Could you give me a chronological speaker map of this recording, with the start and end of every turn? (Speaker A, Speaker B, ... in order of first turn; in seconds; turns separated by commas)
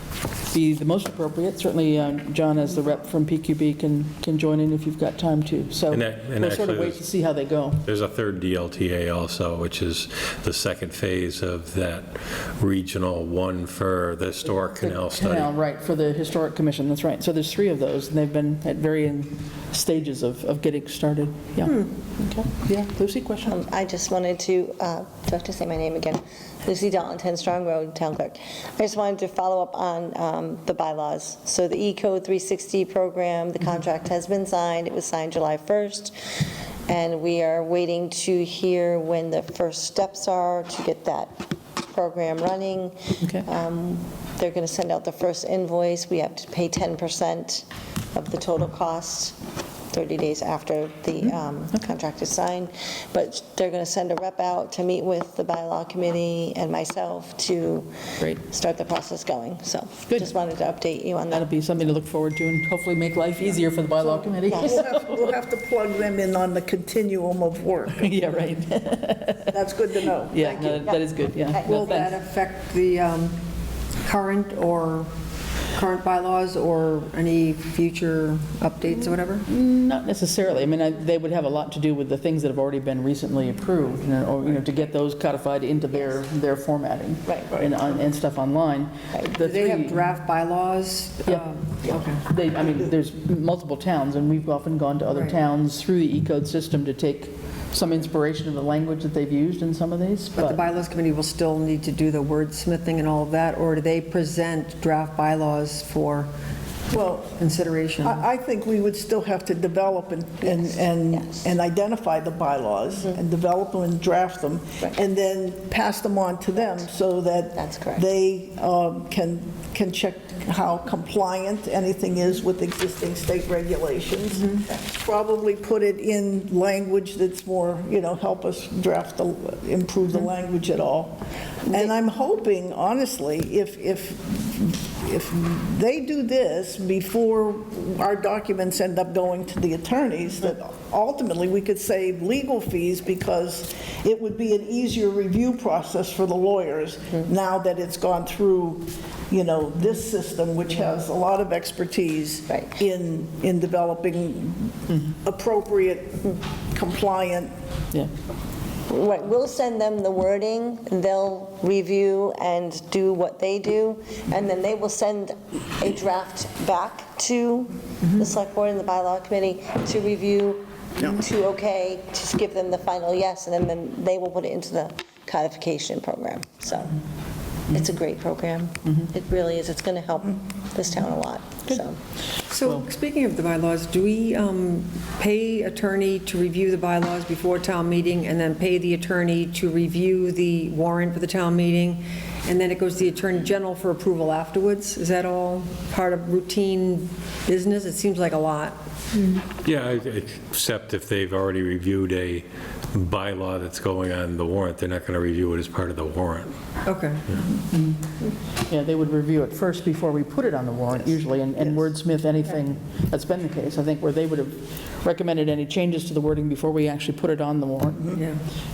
Speaker A: 0.5-7.8, Speaker B: 5.9-7.0, Speaker B: 7.8-15.5, Speaker A: 14.7-23.6, Speaker C: 21.6-21.9, Speaker D: 23.4-36.1, Speaker D: 36.9-49.4, Speaker D: 49.9-61.5, Speaker A: 51.2-51.9, Speaker A: 61.3-65.2, Speaker E: 64.5-68.2, Speaker A: 68.0-69.6, Speaker E: 69.5-70.5, Speaker A: 70.3-72.1, Speaker D: 70.4-71.8, Speaker C: 71.5-73.4, Speaker C: 74.0-75.1, Speaker C: 75.7-79.4, Speaker A: 79.0-90.0, Speaker D: 87.3-87.5, Speaker C: 89.4-92.2, Speaker A: 92.1-100.6, Speaker C: 95.1-95.4, Speaker C: 100.4-106.3, Speaker E: 106.9-107.4, Speaker C: 107.4-108.2, Speaker E: 108.0-157.5, Speaker D: 110.4-111.5, Speaker D: 117.5-118.1, Speaker D: 158.9-177.0, Speaker D: 177.7-182.0, Speaker C: 182.5-199.4, Speaker B: 199.4-206.5, Speaker C: 206.8-207.4, Speaker A: 207.7-208.0, Speaker A: 208.7-218.2, Speaker C: 218.1-218.4